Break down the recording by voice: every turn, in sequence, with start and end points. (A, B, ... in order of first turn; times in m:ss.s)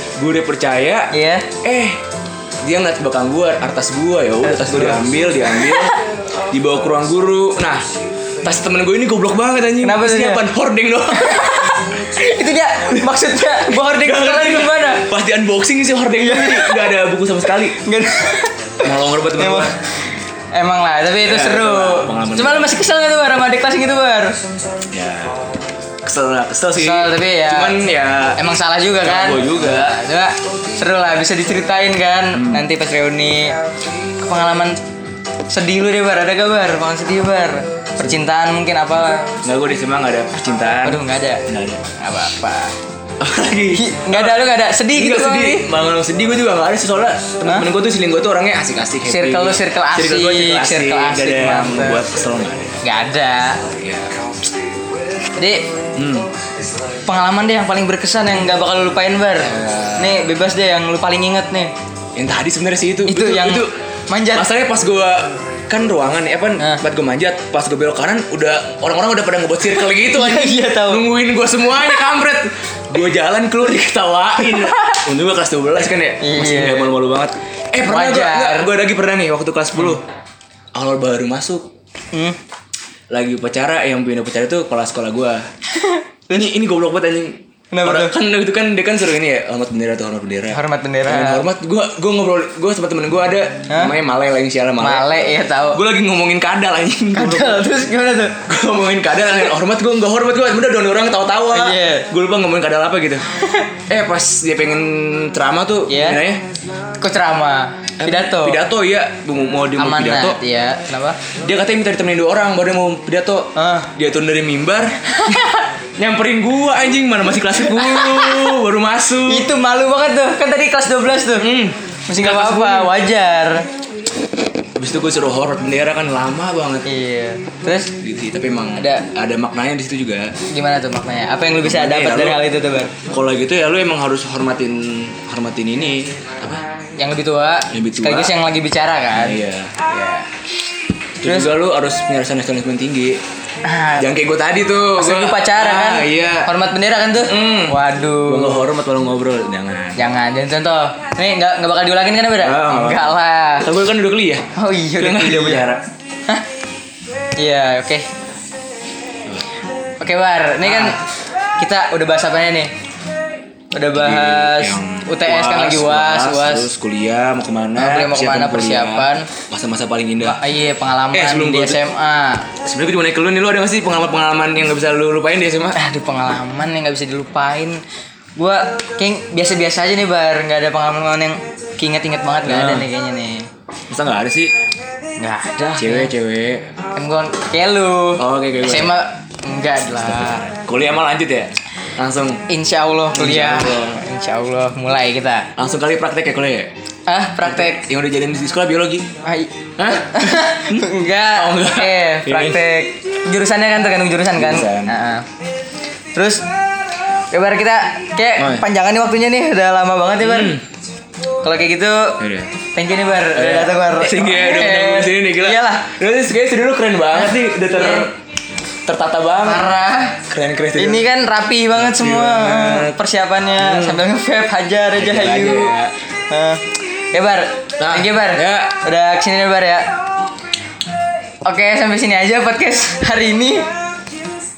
0:00.2-0:02.0 A
0:01.1-0:01.5 B
0:02.6-0:05.9 A
0:04.4-0:06.0 B
0:06.5-0:07.8 A
0:08.4-0:11.9 A
0:09.8-0:10.4 B
0:11.1-0:15.1 B
0:13.0-0:17.8 A
0:16.2-0:16.9 B
0:17.8-0:19.7 B
0:18.8-0:19.8 A
0:20.5-0:24.4 B
0:21.2-0:22.8 A
0:24.9-0:25.4 A
0:26.0-0:28.4 A
0:26.7-0:27.8 B
0:28.4-0:33.6 B
0:29.0-0:30.0 A
0:32.3-0:32.6 A
0:34.2-0:34.8 B
0:35.5-0:39.3 B
0:39.4-0:41.8 A
0:40.8-0:42.7 B
0:43.2-0:52.8 A
0:43.7-0:45.7 B
0:49.0-0:52.0 B
0:52.8-0:53.6 B
0:53.6-0:54.1 A
0:55.4-0:55.7 B
0:55.9-0:56.3 A
0:57.0-1:01.7 B
0:59.4-1:00.3 A
1:02.1-1:03.7 A
1:03.1-1:04.5 B
1:04.3-1:20.0 A
1:09.6-1:11.1 B
1:11.7-1:12.1 B
1:14.4-1:15.0 B
1:16.2-1:16.9 B
1:17.8-1:18.7 B
1:20.7-1:21.7 A
1:23.1-1:25.4 A
1:25.7-1:26.4 B
1:26.3-1:35.1 A
1:27.7-1:28.2 B
1:30.5-1:31.4 B
1:33.7-1:33.9 B
1:34.8-1:35.8 B
1:35.7-1:37.7 A
1:37.2-1:38.4 B
1:38.4-1:43.3 A
1:41.5-1:42.1 B
1:43.3-1:43.7 B
1:43.9-1:46.4 A
1:45.9-1:46.2 B
1:47.0-1:48.6 B
1:48.0-1:50.4 A
1:49.8-1:51.2 B
1:51.4-1:55.4 A
1:53.5-1:53.9 B
1:55.1-1:55.7 B
1:56.0-1:59.5 A
1:57.5-1:58.6 B
1:59.2-2:01.5 B
2:01.4-2:02.9 A
2:02.1-2:03.6 B
2:04.8-2:06.9 A
2:06.8-2:07.9 B
2:08.0-2:10.3 A
2:08.8-2:09.0 B
2:10.5-2:12.9 B
2:11.6-2:12.4 A
2:13.0-2:16.6 A
2:17.0-2:20.3 B
2:17.7-2:18.3 A
2:19.1-2:19.8 A
2:21.2-2:23.2 A
2:21.2-2:21.5 B
2:23.6-2:24.1 B
2:24.0-2:26.5 A
2:25.0-2:28.7 B
2:27.2-2:30.0 A
2:30.0-2:33.7 B
2:32.4-2:35.8 A
2:34.6-2:35.7 B
2:37.4-2:38.0 B
2:40.0-2:41.0 B
2:40.6-2:41.0 A
2:41.6-2:42.7 B
2:43.7-2:46.7 B
2:43.9-2:50.4 A
2:47.8-2:49.3 B
2:50.2-2:52.5 B
2:51.1-2:51.8 A
2:52.6-2:55.8 A
2:55.7-2:57.8 B
2:58.4-3:03.5 B
3:02.4-3:02.9 A
3:03.9-3:04.5 A
3:05.2-3:06.1 B
3:05.8-3:06.7 A
3:06.9-3:10.5 B
3:08.2-3:09.0 A
3:09.9-3:12.4 A
3:12.5-3:15.5 B
3:13.1-3:14.0 A
3:15.6-3:16.7 A
3:17.1-3:17.9 B
3:17.4-3:19.1 A
3:19.2-3:25.2 B
3:19.8-3:22.6 A
3:24.3-3:25.0 A
3:26.1-3:26.4 B
3:27.3-3:30.6 B
3:28.4-3:28.6 A
3:30.2-3:30.6 A
3:31.4-3:32.2 B
3:32.2-3:32.5 A
3:32.7-3:35.9 B
3:33.3-3:38.1 A
3:37.2-3:38.1 B
3:38.8-3:39.7 A
3:39.4-3:40.2 B
3:40.2-3:41.1 A
3:40.8-3:45.7 B
3:41.8-3:43.0 A
3:43.6-3:44.0 A
3:44.9-3:45.9 A
3:46.3-3:49.9 B
3:47.8-3:48.8 A
3:51.4-3:53.6 B